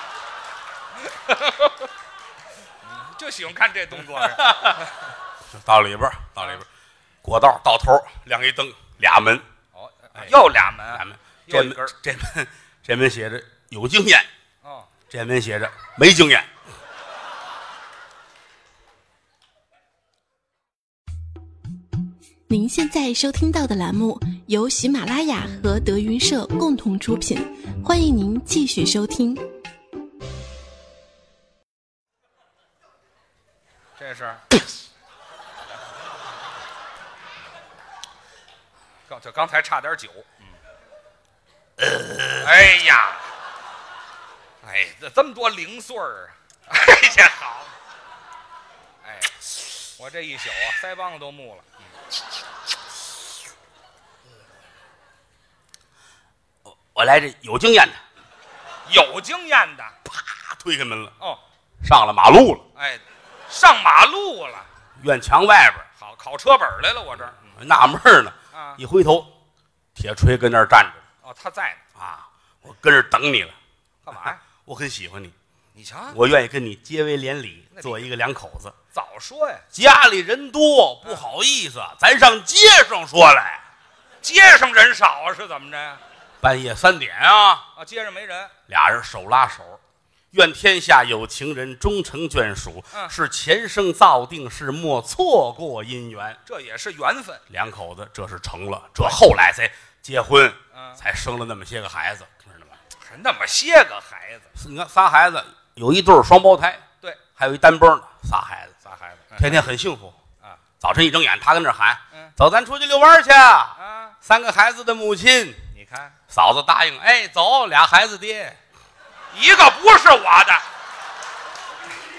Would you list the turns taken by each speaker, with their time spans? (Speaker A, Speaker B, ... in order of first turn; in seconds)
Speaker A: 1.0-1.9, 2.8-5.1, 9.7-11.9, 14.6-14.9, 34.0-34.4, 39.1-40.6, 42.4-43.2, 44.6-47.7, 49.0-51.8, 58.9-59.9, 62.7-64.7, 66.0-67.6, 68.5-68.8, 71.2-71.8, 74.0-74.4, 75.7-76.2, 77.7-78.0, 78.9-79.6, 84.2-86.0, 87.7-88.5, 96.4-97.4, 100.7-101.0, 103.0-104.5, 108.8-109.7, 113.8-114.2, 115.7-116.2, 119.3-120.6
Speaker B: 4.1-4.8, 5.5-6.7, 7.2-9.4, 10.1-14.3, 15.1-16.5, 41.8-42.3, 56.7-58.0, 60.1-61.1, 61.8-62.6, 65.0-65.9, 67.4-69.3, 69.9-71.0, 72.0-73.5, 74.5-75.3, 76.1-78.7, 79.7-83.6, 86.4-87.6, 88.7-89.8, 90.3-96.4, 97.5-102.8, 104.5-106.8, 107.3-108.7, 109.4-110.2, 110.8-115.6, 116.3-118.6
Speaker C: 22.5-29.4